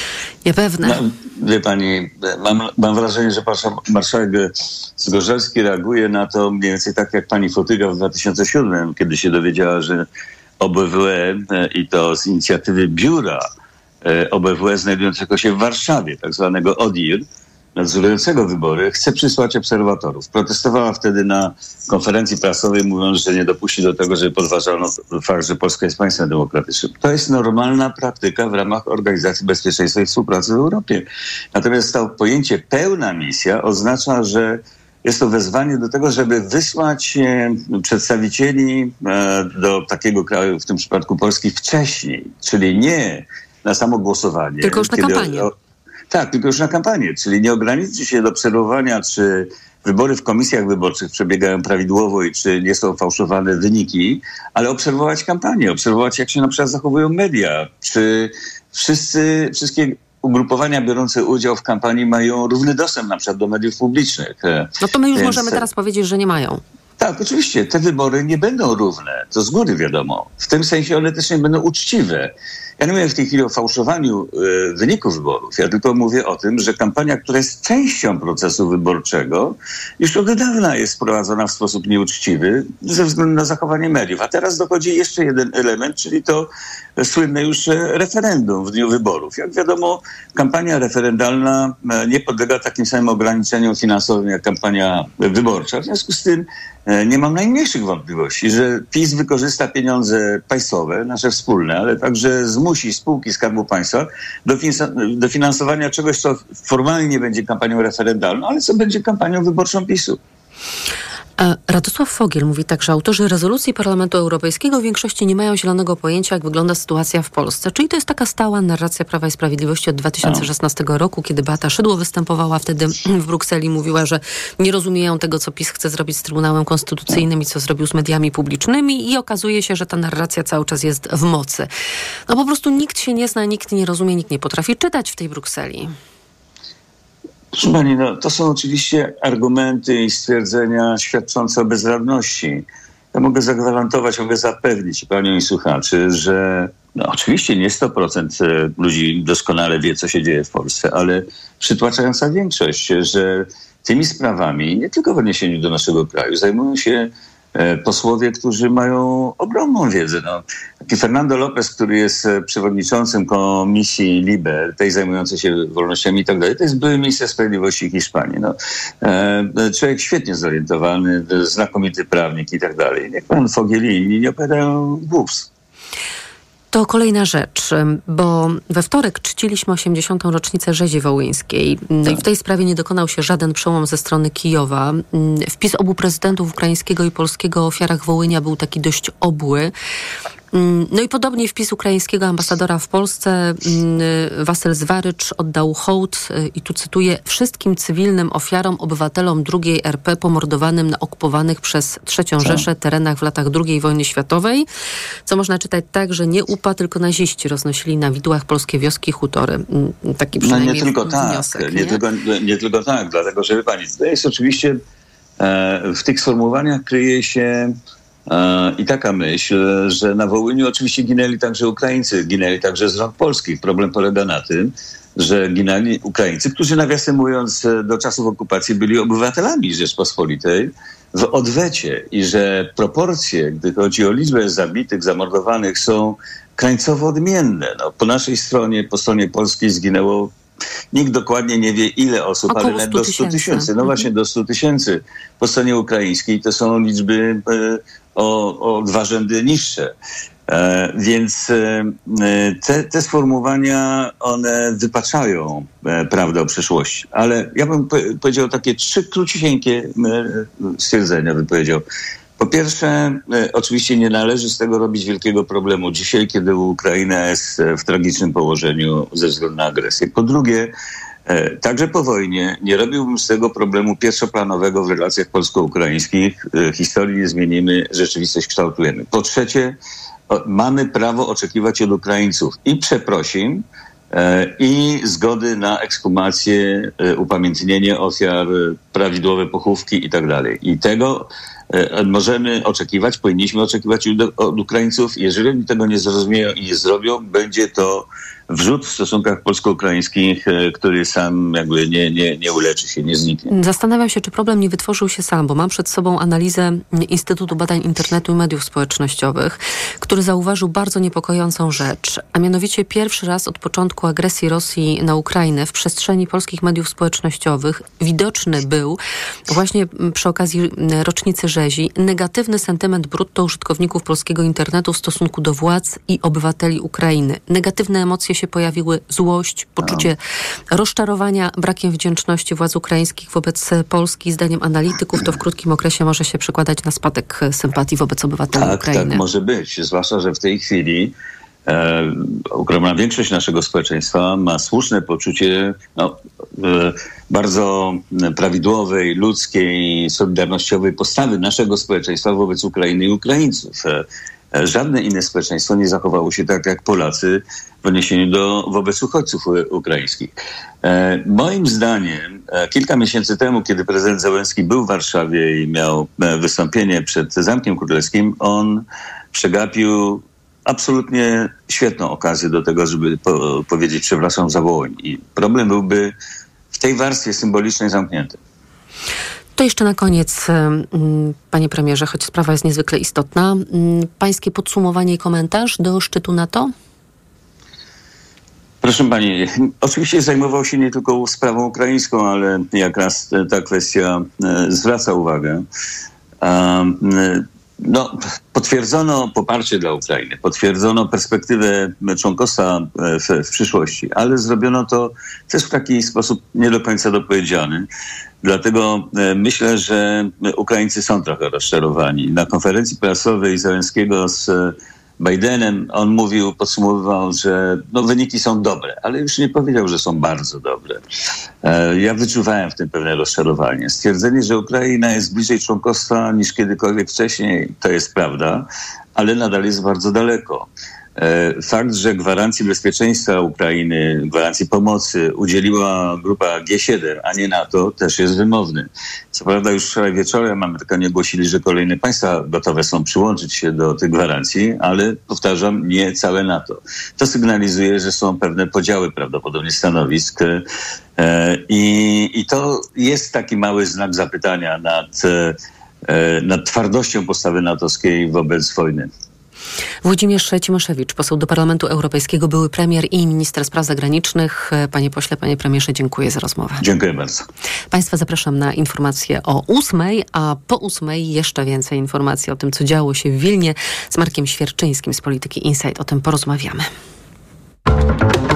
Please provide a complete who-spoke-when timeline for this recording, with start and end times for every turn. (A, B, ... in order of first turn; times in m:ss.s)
0:00.4-0:01.0 A
0:00.8-0:10.0 B
0:10.6-0:13.4 B
0:14.0-0:17.2 B
0:17.8-0:45.5 B
0:44.6-0:45.5 A
0:46.1-1:05.6 B
1:04.8-1:06.6 A
1:07.0-1:50.2 B
1:51.4-2:11.7 A
2:12.3-2:15.9 A
2:17.5-2:22.6 B
2:23.1-2:55.5 B
2:56.7-3:09.7 A
3:10.5-3:24.7 A
3:25.3-3:32.0 A
3:30.4-3:34.8 B
3:35.4-3:37.7 B
3:38.3-4:00.3 B
4:00.9-4:09.9 B
4:02.5-4:04.1 A
4:10.5-4:21.8 B
4:22.4-4:30.7 B
4:31.3-4:39.8 B
4:40.3-4:43.6 B
4:44.1-5:03.5 B
5:03.5-5:19.0 A
5:19.5-5:30.2 A
5:29.8-5:30.1 B
5:30.7-5:39.2 A
5:38.5-5:41.1 B
5:41.7-5:54.0 B
5:54.5-6:00.3 B
6:00.8-6:16.1 B
6:16.7-6:18.4 B
6:19.6-6:26.7 A
6:28.8-6:35.6 B
6:36.4-6:47.9 B
6:48.4-7:01.0 B
7:01.6-7:10.7 B
7:11.2-7:30.6 B
7:31.2-7:35.6 B
7:36.1-7:39.1 B
7:40.0-7:46.8 A
7:46.8-7:47.4 B
7:47.9-7:56.9 A